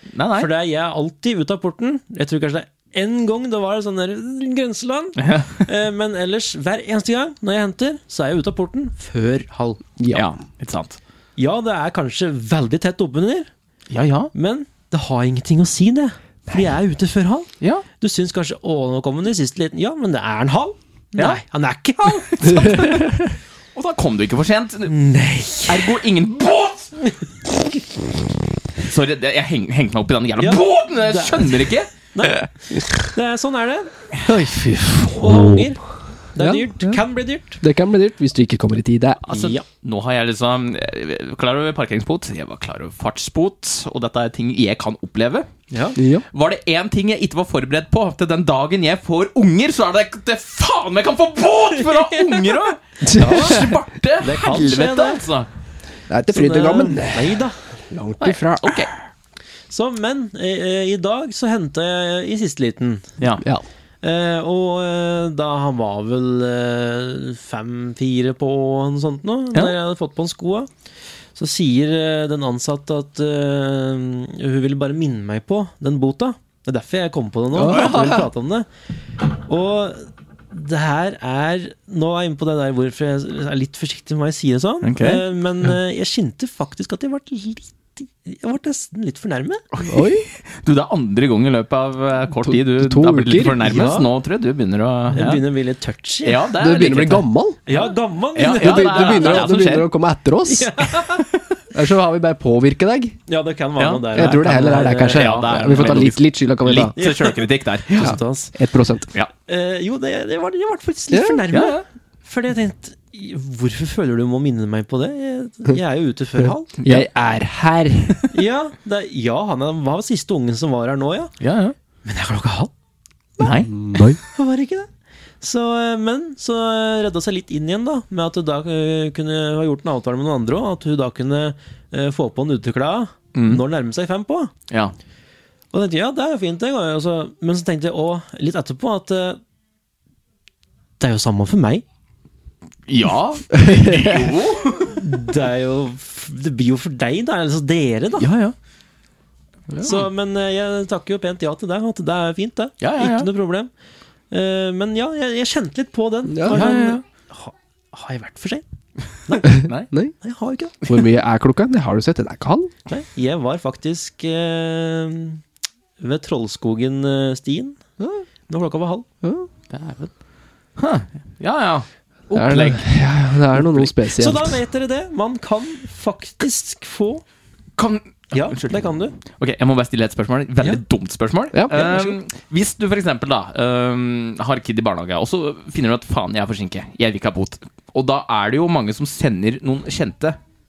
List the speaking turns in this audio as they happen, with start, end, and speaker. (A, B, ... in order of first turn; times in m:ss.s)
0:00.1-0:00.5 A
0:00.3-0:09.8 B
0:05.2-0:05.7 A
0:10.0-0:10.3 C
0:10.1-0:11.0 A
0:11.4-0:13.5 B
0:13.9-0:14.3 A
0:14.3-0:23.0 B
0:21.2-0:21.4 A
0:22.0-0:24.9 A
0:22.5-0:23.3 C
0:24.9-0:26.0 B
0:25.7-0:27.0 A
0:28.8-0:31.9 A
0:30.4-0:34.1 B
0:34.2-0:35.7 C
0:35.2-0:35.8 B
0:36.3-0:37.6 B
0:36.4-0:37.0 C
0:37.6-0:39.4 C
0:39.2-0:45.5 A
0:39.3-0:39.6 B
0:45.7-0:46.0 B
0:46.0-0:46.2 C
0:46.3-0:55.5 A
0:52.1-0:55.2 B
0:53.0-0:53.8 C
0:56.1-0:58.9 C
0:56.3-0:57.6 B
0:58.2-0:58.9 A
0:59.7-1:03.1 B
1:03.2-1:03.4 A
1:03.4-1:03.6 C
1:04.0-1:10.7 B
1:11.3-1:18.7 B
1:17.5-1:18.3 C
1:19.3-1:29.6 B
1:24.8-1:25.2 A
1:29.7-1:35.4 A
1:29.8-1:30.2 C
1:32.4-1:33.6 C
1:33.6-1:34.1 B
1:35.1-1:36.5 B
1:36.2-1:37.3 A
1:36.6-1:37.6 C
1:37.7-1:39.6 B
1:38.3-1:39.9 A
1:38.6-1:40.7 C
1:40.4-1:41.2 B
1:41.7-1:43.2 C
1:43.3-1:45.9 B
1:43.8-1:44.4 A
1:44.1-1:47.0 C
1:45.1-1:48.2 A
1:47.0-1:48.5 B
1:48.0-1:49.1 C
1:49.4-1:56.7 B
1:51.1-1:51.4 C
1:51.5-1:51.8 A
1:56.4-1:58.2 C
1:56.8-1:57.1 A
1:58.3-2:01.3 B
2:01.4-2:01.7 A
2:02.0-2:02.7 B
2:03.4-2:03.7 A
2:03.4-2:04.9 B
2:03.6-2:04.2 C
2:05.4-2:14.5 B
2:13.3-2:13.6 A
2:14.7-2:14.9 A
2:15.7-2:19.4 B
2:21.0-2:21.8 B
2:22.9-2:25.0 A
2:23.5-2:24.3 C
2:24.9-2:28.3 B
2:28.2-2:28.5 A
2:29.8-2:33.7 B
2:32.8-2:33.3 A
2:34.3-2:38.6 B
2:36.3-2:36.7 C
2:36.5-2:37.0 A
2:39.2-2:39.7 B
2:39.4-2:39.9 A
2:39.4-2:40.1 C
2:40.2-2:40.8 B
2:40.8-2:42.7 C
2:42.9-2:45.4 B
2:46.0-2:47.8 B
2:48.5-2:49.1 B
2:49.2-2:49.5 C
2:49.7-2:50.1 A
2:50.8-2:52.9 A
2:52.3-2:54.6 C
2:53.5-2:53.9 A
2:54.1-2:57.2 B
2:57.8-3:10.4 A
2:58.3-2:59.2 B
3:01.5-3:02.1 C